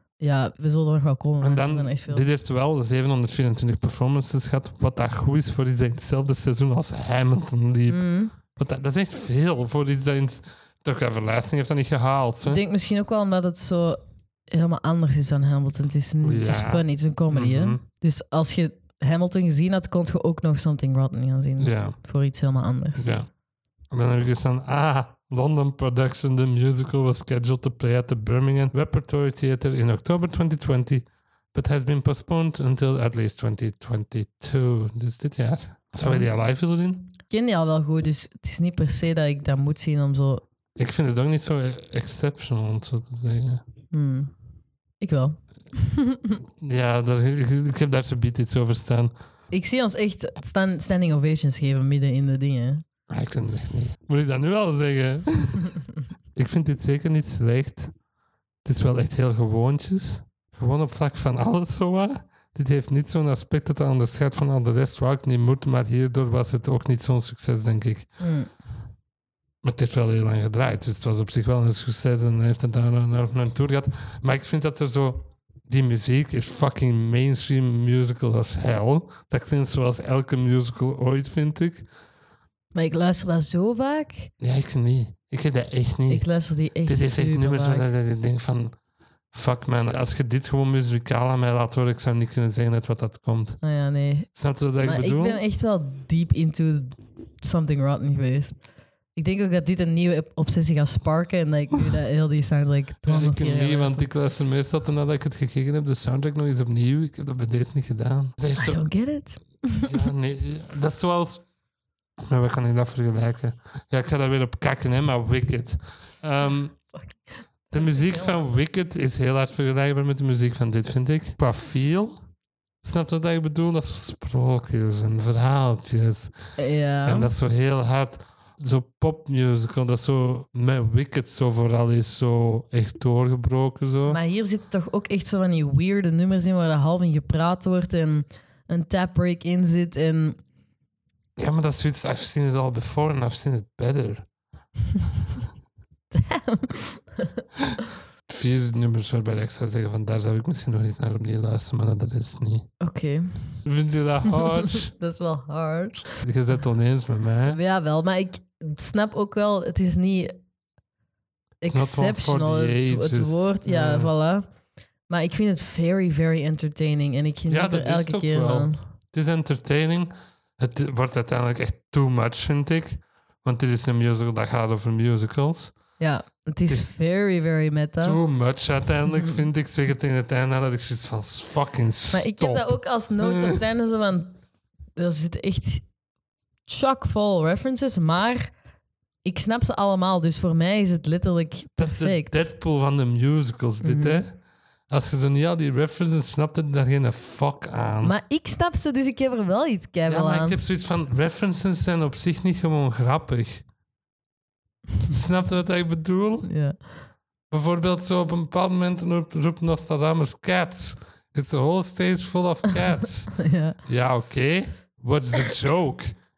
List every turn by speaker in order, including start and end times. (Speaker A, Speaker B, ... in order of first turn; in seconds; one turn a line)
Speaker A: 0.2-2.3
Speaker B: 1.4-12.6
Speaker A: 7.9-8.3
Speaker A: 12.4-23.1
Speaker B: 16.2-17.8
Speaker B: 21.6-22.0
Speaker B: 23.0-23.3
Speaker B: 23.9-37.1
Speaker A: 36.0-36.3
Speaker A: 37.3-40.4
Speaker B: 40.8-43.6
Speaker A: 43.9-44.3
Speaker A: 45.0-46.3
Speaker B: 46.6-49.1
Speaker A: 49.5-52.8
Speaker B: 53.1-55.8
Speaker B: 56.4-57.9
Speaker B: 58.6-68.2
Speaker A: 68.2-68.5
Speaker B: 69.6-81.9
Speaker A: 82.7-84.3
Speaker B: 84.4-88.8
Speaker A: 86.1-87.9
Speaker B: 89.3-93.6
Speaker A: 93.6-98.6
Speaker B: 94.2-95.4
Speaker A: 99.1-104.1
Speaker B: 103.0-108.9
Speaker A: 108.5-110.0
Speaker B: 109.8-111.5
Speaker B: 112.2-116.9
Speaker A: 116.9-118.5
Speaker B: 117.7-122.2
Speaker B: 122.8-126.3
Speaker A: 126.6-127.3
Speaker B: 127.0-134.2
Speaker A: 134.1-140.4
Speaker B: 141.4-144.2
Speaker A: 146.1-147.4
Speaker B: 148.3-152.7
Speaker A: 152.8-153.6
Speaker B: 153.6-154.9
Speaker A: 154.4-156.2
Speaker B: 156.2-157.6
Speaker A: 157.5-160.3
Speaker A: 161.6-164.5
Speaker B: 161.6-164.1
Speaker A: 165.1-168.8
Speaker B: 167.5-176.0
Speaker A: 176.0-178.2
Speaker B: 178.0-183.6
Speaker A: 179.1-179.4
Speaker A: 182.1-184.4
Speaker A: 184.9-185.8
Speaker A: 186.7-188.6
Speaker A: 189.2-192.5
Speaker B: 191.8-198.2
Speaker A: 193.8-194.2
Speaker A: 198.0-200.6
Speaker B: 200.1-203.7
Speaker B: 205.1-206.5
Speaker A: 206.4-207.1
Speaker B: 207.5-216.1
Speaker A: 213.4-213.8